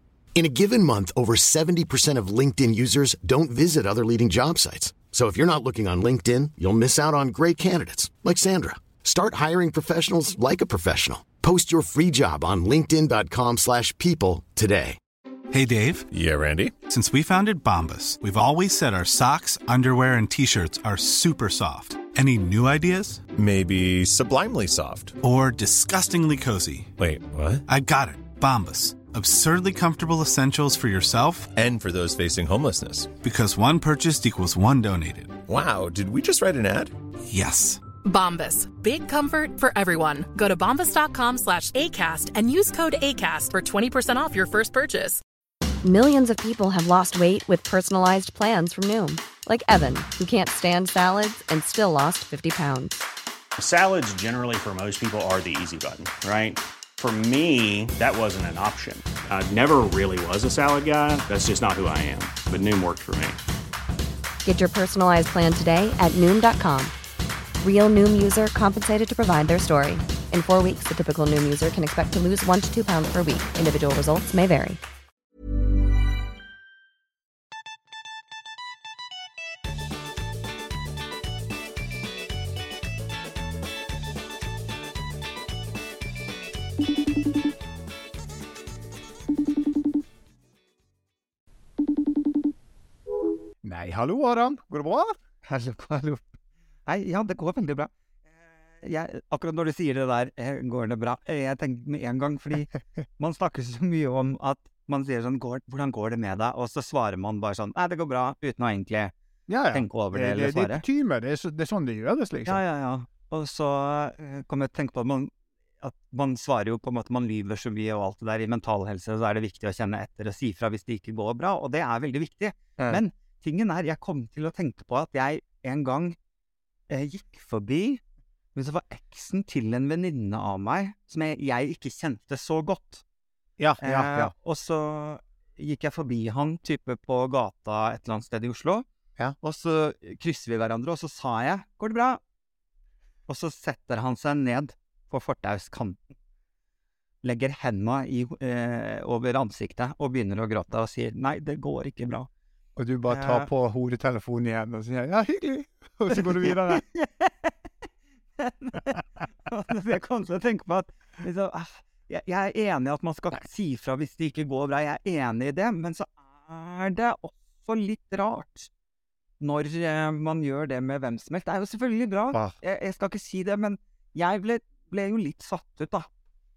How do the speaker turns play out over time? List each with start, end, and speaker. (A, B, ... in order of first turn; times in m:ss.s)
0:00.4-0:15.0 A
0:15.5-0:16.1 B
0:16.1-0:16.7 C
0:16.9-0:23.3 B
0:23.4-0:25.2 C
0:25.2-0:26.9 B
0:27.0-0:27.6 C
0:27.7-0:31.5 B
0:31.6-0:33.1 C
0:33.2-0:35.4 B
0:35.5-0:36.9 C
0:37.2-0:37.8 B
0:38.0-0:45.2 D
0:45.8-0:53.0 E
0:53.6-1:03.4 F
1:04.4-1:06.9 E
1:07.6-1:14.8 E
1:33.6-1:35.2 G
1:35.4-1:36.2 H
1:36.9-1:37.9 H
1:38.4-1:49.1 H
1:49.5-1:52.6 G
1:49.7-1:50.8 H
1:52.5-2:06.2 H
2:06.9-2:08.0 H
2:08.6-2:13.0 H
2:13.6-2:14.3 G
2:13.8-2:18.8 H
2:19.4-2:22.2 H
2:23.3-2:26.0 H
2:27.2-2:32.3 H
2:32.8-2:36.8 G
2:33.1-2:33.5 H
2:36.1-2:37.5 H
2:38.4-2:48.7 H
2:49.4-2:56.1 H